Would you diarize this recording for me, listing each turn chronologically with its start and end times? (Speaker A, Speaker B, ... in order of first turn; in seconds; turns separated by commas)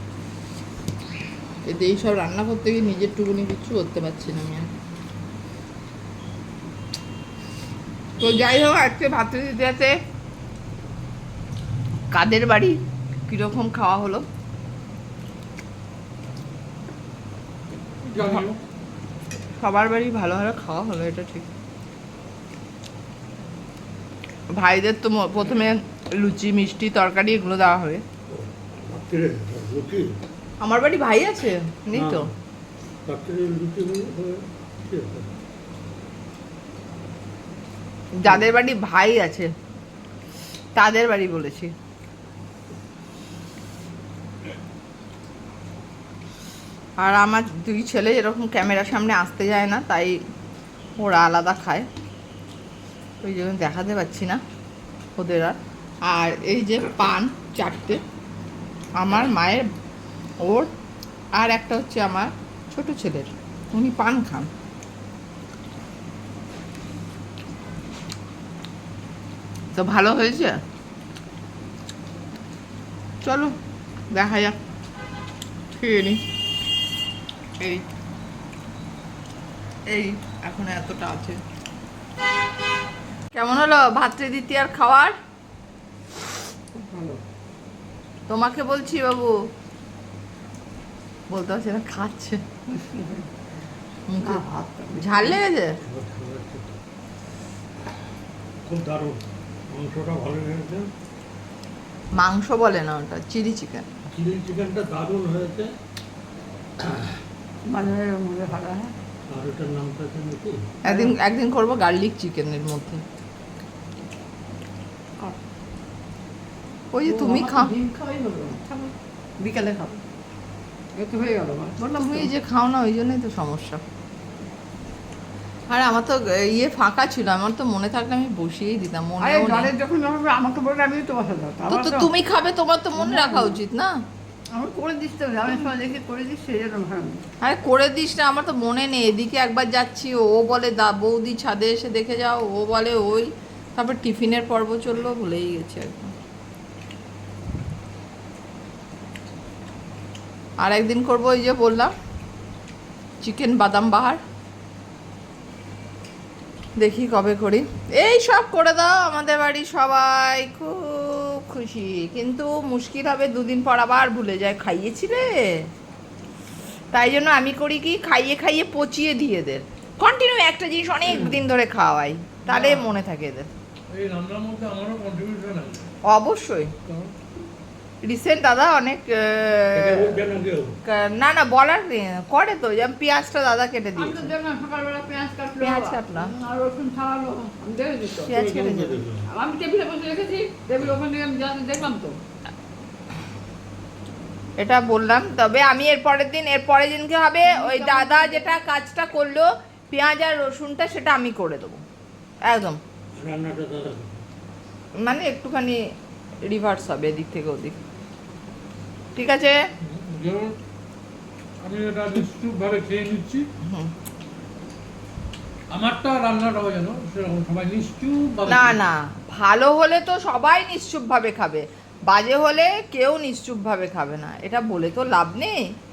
Speaker A: 1.6-4.7, Speaker A: 8.2-9.9, Speaker A: 12.1-12.8, Speaker A: 13.3-14.2, Speaker B: 18.0-18.6, Speaker A: 18.2-18.4, Speaker A: 19.6-21.4, Speaker A: 24.5-28.0, Speaker C: 28.3-30.2, Speaker A: 30.6-32.3, Speaker C: 31.9-32.3, Speaker C: 33.0-35.3, Speaker A: 38.2-39.5, Speaker A: 40.8-41.7, Speaker A: 47.0-50.2, Speaker A: 51.0-51.9, Speaker A: 53.2-54.4, Speaker A: 55.2-58.0, Speaker A: 59.0-59.6, Speaker A: 60.4-60.7, Speaker A: 61.4-64.5, Speaker A: 69.8-70.5, Speaker A: 73.2-73.5, Speaker A: 74.1-74.5, Speaker A: 75.8-76.2, Speaker A: 79.9-81.4, Speaker A: 83.3-85.1, Speaker D: 86.7-87.2, Speaker A: 88.3-89.3, Speaker A: 91.3-92.4, Speaker D: 92.7-93.3, Speaker A: 94.1-94.4, Speaker D: 94.2-95.4, Speaker A: 94.9-95.7, Speaker C: 95.8-96.7, Speaker C: 98.6-100.9, Speaker A: 102.2-103.9, Speaker C: 104.1-105.7, Speaker C: 106.8-107.1, Speaker D: 107.6-108.9, Speaker C: 109.3-110.6, Speaker A: 110.8-113.0, Speaker D: 110.8-111.1, Speaker A: 116.9-117.7, Speaker D: 117.0-120.0, Speaker D: 120.9-122.3, Speaker A: 121.8-123.8, Speaker A: 125.7-129.7, Speaker D: 129.2-132.1, Speaker A: 131.7-133.9, Speaker D: 132.9-133.6, Speaker D: 134.5-137.2, Speaker A: 137.4-146.1, Speaker A: 150.6-151.9, Speaker A: 153.2-154.2, Speaker A: 156.8-165.3, Speaker A: 166.9-173.5, Speaker B: 172.5-172.9, Speaker B: 173.9-175.8, Speaker A: 176.1-176.7, Speaker B: 176.9-177.1, Speaker A: 178.0-180.2, Speaker C: 179.7-180.8, Speaker A: 180.8-184.3, Speaker D: 183.9-188.3, Speaker A: 185.6-186.3, Speaker A: 188.2-189.0, Speaker C: 188.3-189.2, Speaker D: 189.3-192.2, Speaker A: 194.6-201.8, Speaker D: 197.4-198.6, Speaker A: 202.4-202.8, Speaker C: 203.1-204.2, Speaker A: 205.0-205.8, Speaker A: 206.4-207.8, Speaker A: 209.2-209.6, Speaker B: 209.8-210.5, Speaker B: 211.6-213.4, Speaker A: 213.6-213.9, Speaker B: 215.7-218.8, Speaker A: 218.5-225.7